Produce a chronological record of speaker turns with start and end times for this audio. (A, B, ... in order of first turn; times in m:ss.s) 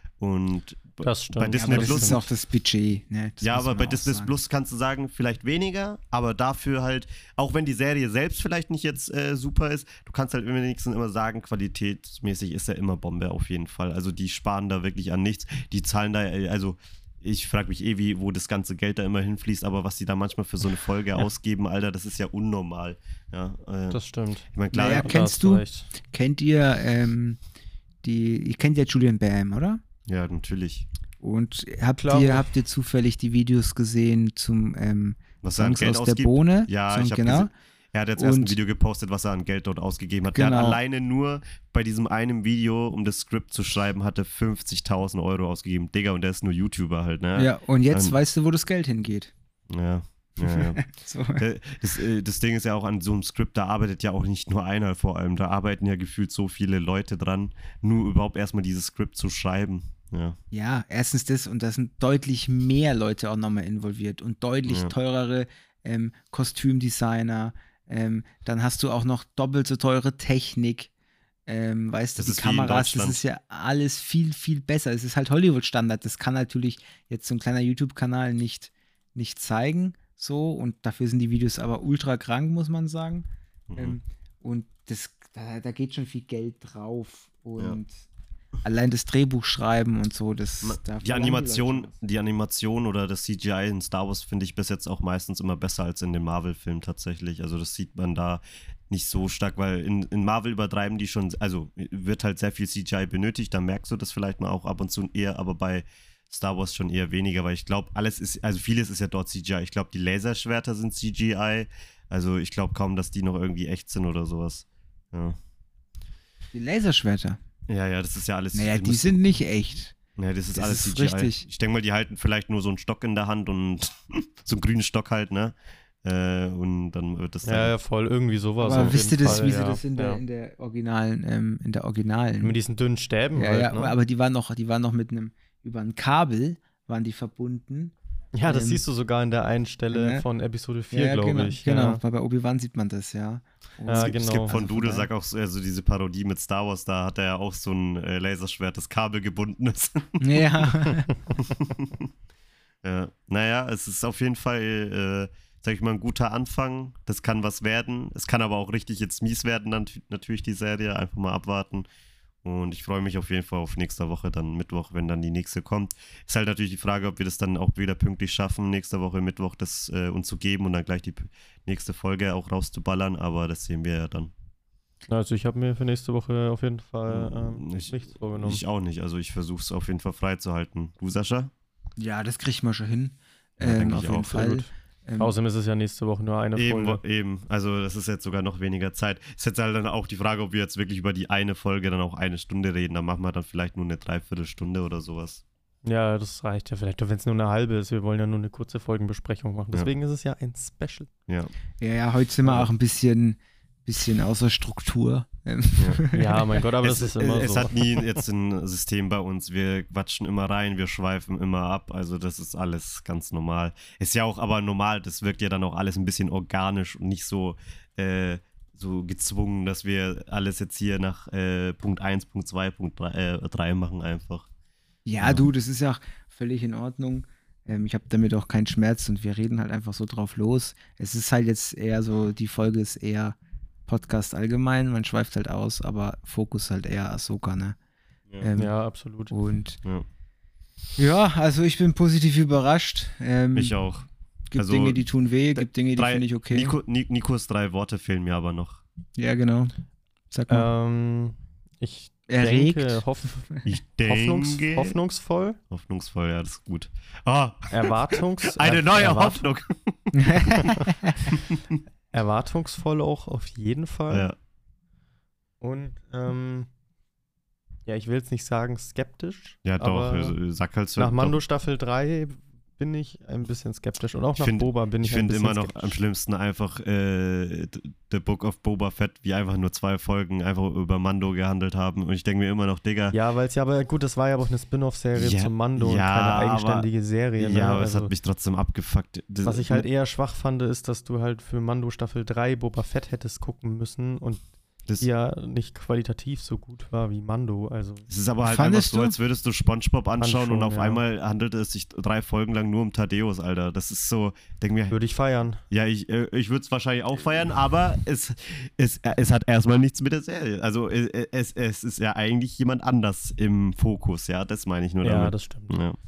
0:00.2-0:02.2 A
0:01.0-0:02.2 B
0:01.6-0:04.3 C
0:03.4-0:24.0 A
0:23.9-0:25.9 B
0:24.5-0:25.2 A
0:24.7-0:27.4 C
0:28.0-0:29.8 C
0:30.1-0:30.9 A
0:31.2-0:37.5 C
0:32.0-0:32.4 B
0:35.4-0:48.2 A
0:38.2-0:38.6 C
0:40.3-0:40.8 C
0:47.4-0:49.3 C
0:49.7-0:50.8 A
0:50.4-0:51.4 C
0:51.4-1:00.4 A
1:00.5-1:10.9 C
1:04.6-1:04.9 A
1:11.5-1:28.0 C
1:12.2-1:13.2 A
1:23.7-1:24.0 A
1:28.6-1:31.9 C
1:30.6-1:55.4 A
1:56.5-1:57.4 C
1:57.7-1:59.2 A
1:58.5-2:00.0 C
2:00.2-2:07.7 A
2:00.5-2:01.4 C
2:07.4-2:10.2 B
2:08.6-2:12.6 C
2:08.7-2:09.3 A
2:12.4-2:14.0 B
2:13.3-2:17.9 C
2:18.3-2:22.0 B
2:18.4-2:18.8 C
2:19.9-2:20.2 C
2:20.9-2:25.1 C
2:23.9-2:24.5 B
2:24.0-2:30.6 A
2:30.2-2:31.1 C
2:31.4-2:32.1 A
2:32.8-2:41.9 A
2:42.4-2:54.3 A
2:55.1-2:58.6 B
2:57.1-3:01.5 A
3:02.0-3:05.3 C
3:03.6-3:04.4 A
3:03.9-3:04.6 B
3:05.2-3:07.0 B
3:06.6-3:15.4 A
3:15.8-3:21.1 B
3:21.8-3:26.4 C
3:22.4-3:22.7 A
3:25.8-3:26.0 A
3:26.1-3:27.8 B
3:26.8-3:44.5 A
3:45.0-3:53.4 C
3:53.9-3:57.8 C
3:58.4-3:58.7 C
3:58.6-3:59.3 B
3:59.3-3:59.8 C
4:01.0-4:03.8 C
4:03.5-4:08.8 A
4:04.5-4:06.7 C
4:09.2-4:09.7 C
4:10.3-4:10.7 C
4:10.5-4:15.6 B
4:12.3-4:13.6 C
4:13.6-4:14.9 A
4:15.7-4:20.6 A
4:17.7-4:19.4 B
4:20.1-4:21.2 C
4:21.5-4:21.8 A
4:22.1-4:24.3 B
4:24.1-4:24.4 A
4:25.6-4:26.7 B
4:27.9-4:30.4 B
4:29.6-4:31.4 A
4:31.0-4:36.0 B
4:34.4-4:43.1 A
4:43.1-4:48.1 B
4:45.2-4:49.9 A
4:49.4-4:54.4 B
4:55.0-4:58.0 B
4:58.1-5:05.0 A
4:58.4-4:59.1 C
5:00.2-5:01.0 B
5:04.9-5:05.6 B
5:05.7-5:16.0 A
5:15.0-5:15.8 B